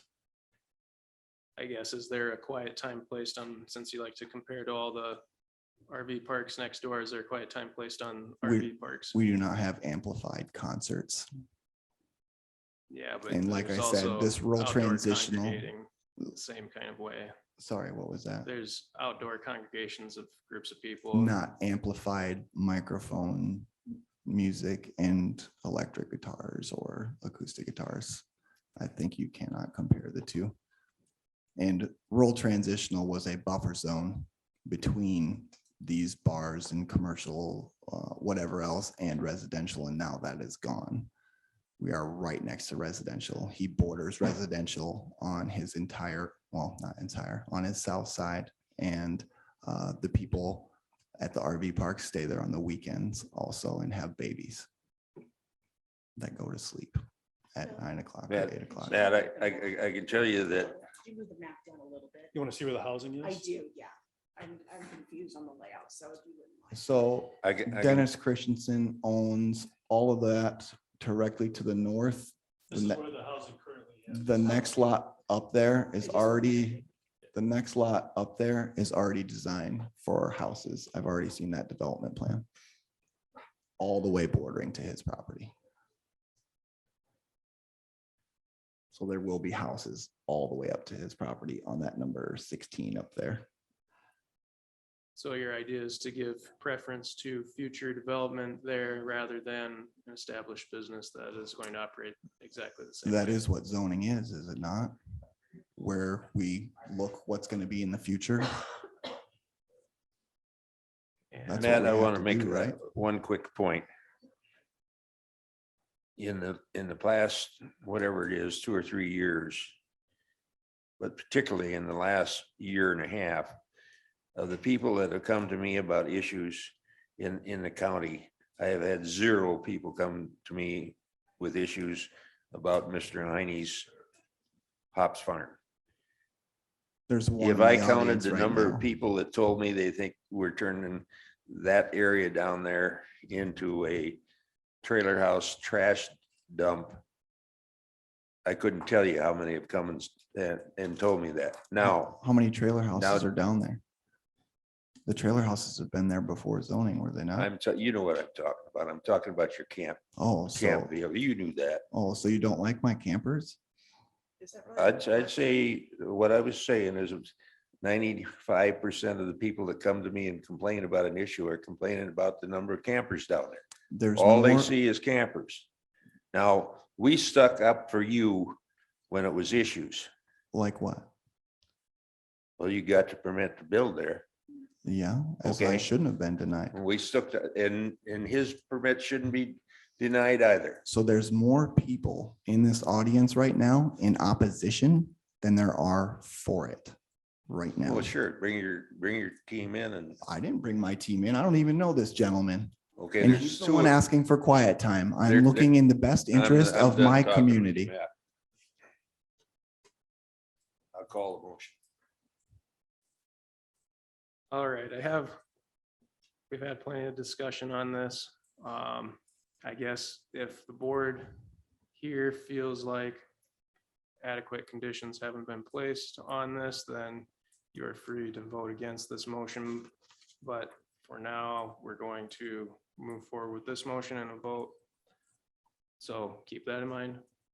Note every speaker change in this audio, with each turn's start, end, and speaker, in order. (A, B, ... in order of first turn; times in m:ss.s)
0:01.6-0:05.2 A
0:05.9-0:09.2 A
0:08.4-0:11.3 B
0:12.9-0:17.3 A
0:13.3-0:15.7 B
0:17.6-0:18.5 B
0:18.4-0:21.4 A
0:21.1-0:23.7 B
0:24.2-0:28.2 B
0:28.8-0:30.6 B
0:31.6-0:41.1 B
0:41.8-0:54.7 B
0:56.2-0:57.0 B
0:57.6-0:59.0 B
0:58.3-1:00.8 C
0:58.8-1:02.3 D
1:02.3-1:03.4 E
1:03.2-1:06.8 D
1:06.7-1:13.0 B
1:07.4-1:08.1 C
1:12.7-1:14.4 E
1:14.1-1:22.5 B
1:23.8-1:25.5 B
1:28.9-1:33.5 B
1:35.2-1:43.4 A
1:43.0-1:45.0 B
1:45.8-1:48.6 B
1:51.3-1:51.8 A
1:51.5-1:52.8 B
1:51.6-1:53.9 C
1:56.2-1:59.8 C
2:01.0-2:03.6 C
2:04.4-2:13.9 C
2:14.9-2:15.6 C
2:17.1-2:18.9 B
2:17.4-2:24.2 C
2:24.8-2:27.0 C
2:28.4-2:32.2 C
2:31.8-2:33.8 B
2:33.0-2:33.3 C
2:35.1-2:37.5 B
2:37.4-2:40.0 C
2:40.2-2:40.9 B
2:40.5-2:41.8 C
2:41.9-2:43.6 B
2:44.4-2:45.3 D
2:44.8-2:53.6 C
2:53.9-2:54.7 B
2:54.2-2:55.7 C
2:56.3-2:58.6 C
2:59.1-3:00.1 C
3:00.5-3:01.1 B
3:02.6-3:04.2 C
3:04.8-3:06.8 B
3:05.4-3:05.9 C
3:06.7-3:10.8 C
3:10.9-3:17.0 B
3:17.5-3:18.1 B
3:17.9-3:20.2 C
3:20.2-3:27.9 B
3:23.0-3:24.0 C
3:25.3-3:25.7 C
3:26.3-3:28.1 C
3:30.9-3:31.8 C
3:34.5-3:35.4 A
3:36.5-3:41.4 A
3:41.9-3:43.2 A
3:44.2-3:49.9 A
3:50.4-3:54.8 A
3:56.0-3:57.2 A